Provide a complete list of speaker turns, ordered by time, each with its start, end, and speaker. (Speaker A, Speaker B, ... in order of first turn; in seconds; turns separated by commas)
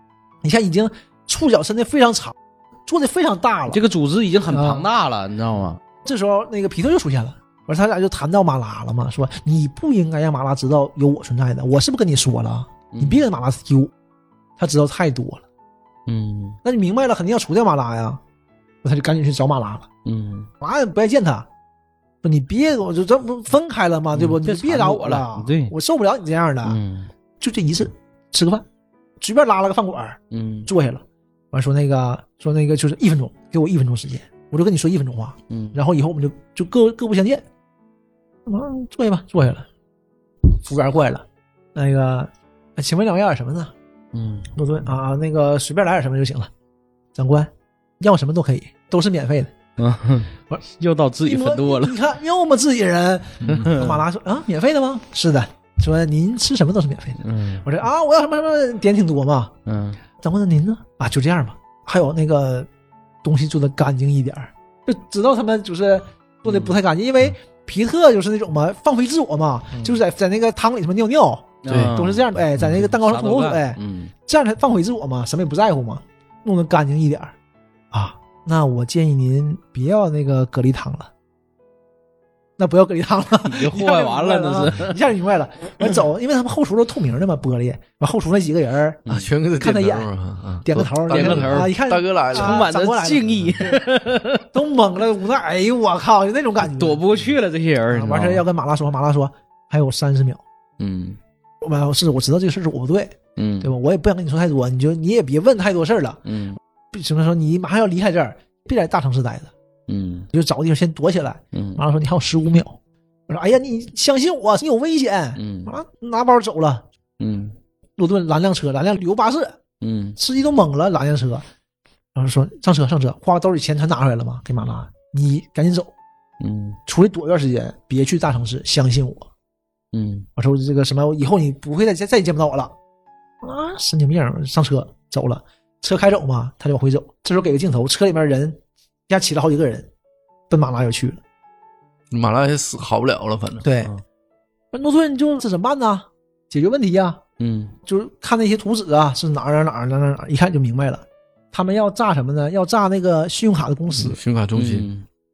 Speaker A: 0.4-2.4, Speaker A: 2.9-3.8, Speaker B: 3.7-5.8, Speaker A: 4.5-4.9, Speaker A: 6.0-13.9, Speaker B: 12.9-13.2, Speaker A: 14.6-15.4, Speaker B: 16.1-16.6, Speaker A: 16.6-18.2, Speaker A: 18.8-19.9, Speaker B: 20.1-20.5, Speaker A: 20.6-21.5, Speaker A: 22.2-26.8, Speaker B: 24.1-25.8, Speaker B: 26.6-27.1, Speaker A: 27.4-28.6, Speaker A: 29.2-37.5, Speaker B: 30.3-30.7, Speaker B: 35.5-35.8, Speaker A: 38.5-39.7, Speaker A: 40.4-43.7, Speaker B: 44.1-44.5, Speaker A: 44.5-46.5, Speaker A: 47.1-49.5, Speaker B: 49.8-52.0, Speaker A: 51.3-59.5, Speaker C: 53.4-53.7, Speaker B: 53.5-54.0, Speaker B: 57.2-57.7, Speaker B: 59.7-60.0, Speaker A: 60.2-62.7, Speaker A: 63.2-77.3, Speaker B: 66.5-66.8, Speaker B: 71.6-74.1, Speaker A: 77.9-81.1, Speaker A: 82.6-89.0, Speaker B: 83.3-85.0, Speaker B: 89.1-89.3, Speaker C: 89.1-92.7, Speaker A: 89.6-90.1, Speaker A: 90.6-93.8, Speaker B: 91.0-91.7, Speaker B: 92.3-94.5, Speaker A: 94.5-97.0, Speaker B: 96.6-98.5, Speaker A: 97.9-100.4, Speaker B: 100.8-101.2, Speaker A: 101.6-106.2, Speaker B: 103.4-103.7, Speaker B: 106.3-106.6, Speaker A: 106.9-109.5, Speaker B: 109.9-110.3, Speaker A: 110.3-112.8, Speaker B: 111.5-111.8, Speaker A: 113.3-116.8, Speaker B: 115.4-115.7, Speaker B: 117.2-117.5, Speaker A: 118.0-119.6, Speaker B: 119.8-120.2, Speaker A: 120.2-121.5, Speaker A: 122.2-125.9, Speaker B: 126.4-126.8, Speaker A: 126.9-129.3, Speaker B: 129.9-130.3, Speaker A: 130.4-132.7, Speaker A: 133.4-139.9, Speaker A: 140.5-141.2, Speaker C: 142.1-143.7, Speaker A: 143.6-143.9, Speaker A: 144.7-147.2, Speaker B: 147.4-147.8, Speaker A: 147.9-154.2, Speaker C: 154.0-154.9, Speaker B: 154.5-155.1